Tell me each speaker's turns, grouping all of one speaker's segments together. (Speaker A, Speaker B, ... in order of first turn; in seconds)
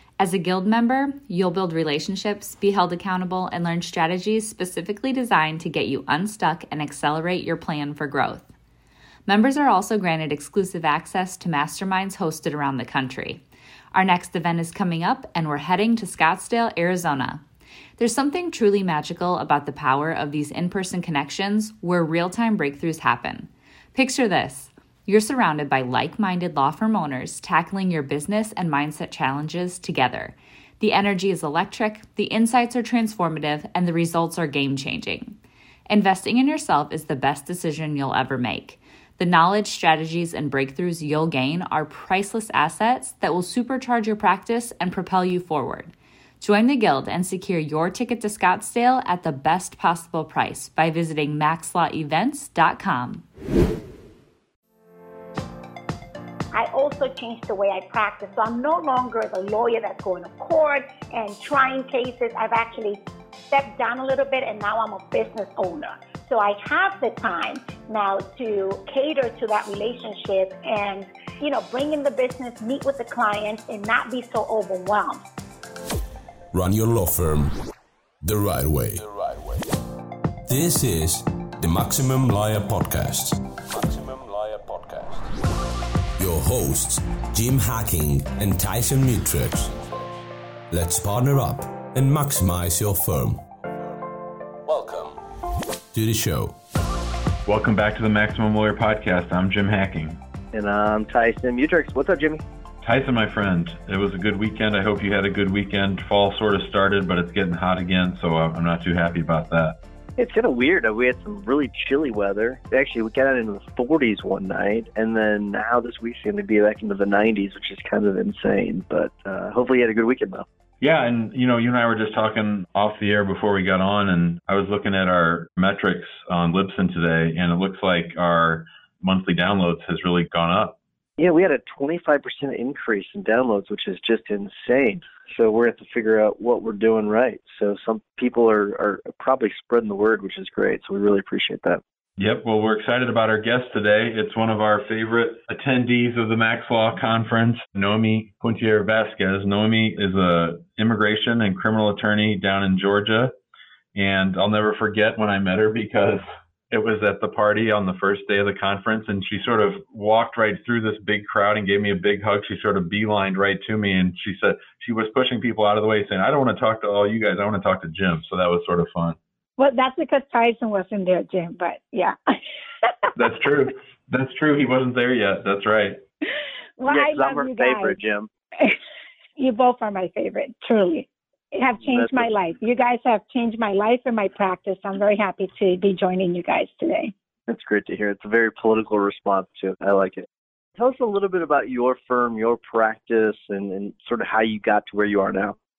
Speaker A: 0.2-8.5, 9.3-13.4, 13.9-17.4, 18.0-35.4, 35.9-53.2
Speaker B: 56.5-63.0, 63.5-75.2, 169.6-173.1, 176.8-178.0, 179.4-187.1
Speaker C: 76.5-77.5, 78.2-79.7, 80.5-85.3, 86.2-90.1, 90.7-94.0, 94.7-95.2, 95.9-96.6
Speaker D: 97.5-100.2, 102.8-109.8, 120.8-130.8, 142.2-153.3, 153.9-169.2, 173.2-176.0
Speaker E: 100.5-102.4, 110.2-120.5, 131.2-141.8, 176.9-178.3, 181.9-182.3, 187.5-190.2, 190.8-195.6